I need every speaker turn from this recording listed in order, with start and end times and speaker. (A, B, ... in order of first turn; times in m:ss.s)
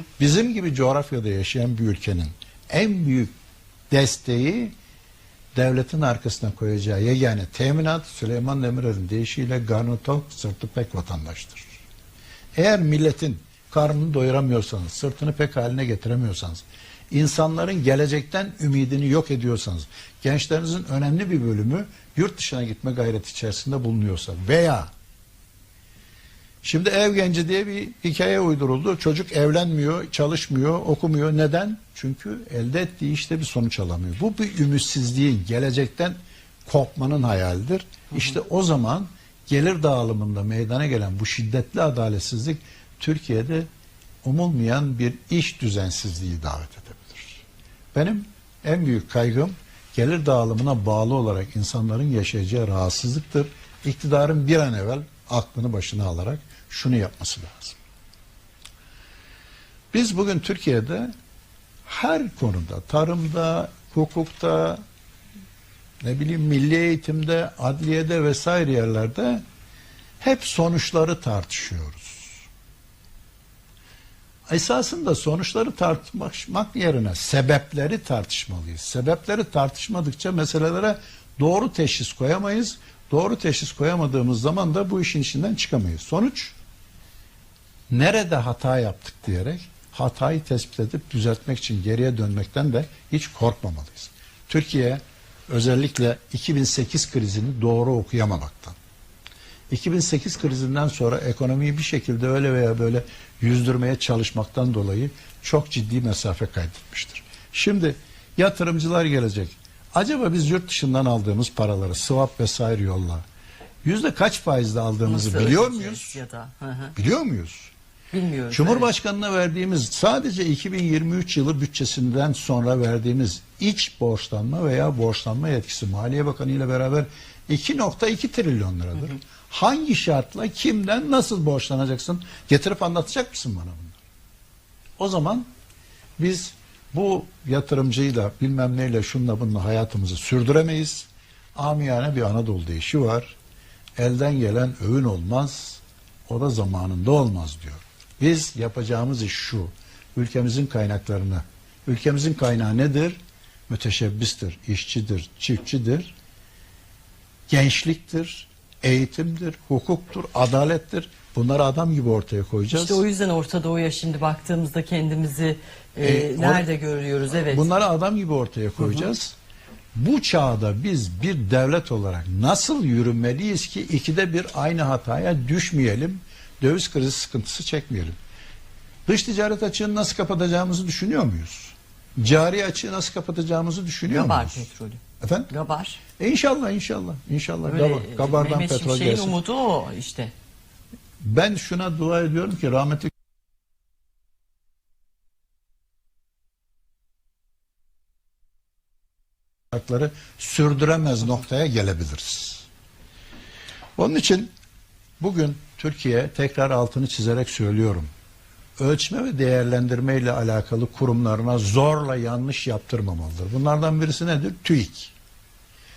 0:00.2-0:03.3 A
0:03.9-0:04.7 A
0:05.5-0:11.8 A
0:12.5-0:24.9 A
0:26.6-0:43.7 A
0:44.2-0:57.8 A
0:59.9-1:01.1 A
1:01.8-1:04.8 A
1:06.0-1:09.4 A
1:10.2-1:12.4 A
1:14.5-1:26.6 A
1:27.9-1:38.8 A
1:39.7-1:53.2 A
1:53.8-1:56.2 A
1:55.0-1:56.9 B
1:57.0-1:57.7 A
1:58.1-1:58.9 B
1:58.5-2:14.0 A
2:15.0-2:15.5 A
2:16.2-2:23.4 A
2:24.0-2:36.1 A
2:37.5-2:43.0 A
2:42.7-2:47.7 B
2:46.0-2:46.6 A
2:47.5-2:49.4 A
2:49.9-2:58.2 A
2:59.0-3:04.6 A
3:04.1-3:06.0 B
3:05.2-3:05.5 A
3:06.2-3:09.4 A
3:07.6-3:10.3 B
3:11.2-3:13.1 A
3:19.7-3:22.6 A
3:24.0-3:24.5 A
3:25.2-3:28.1 A
3:28.8-3:35.1 A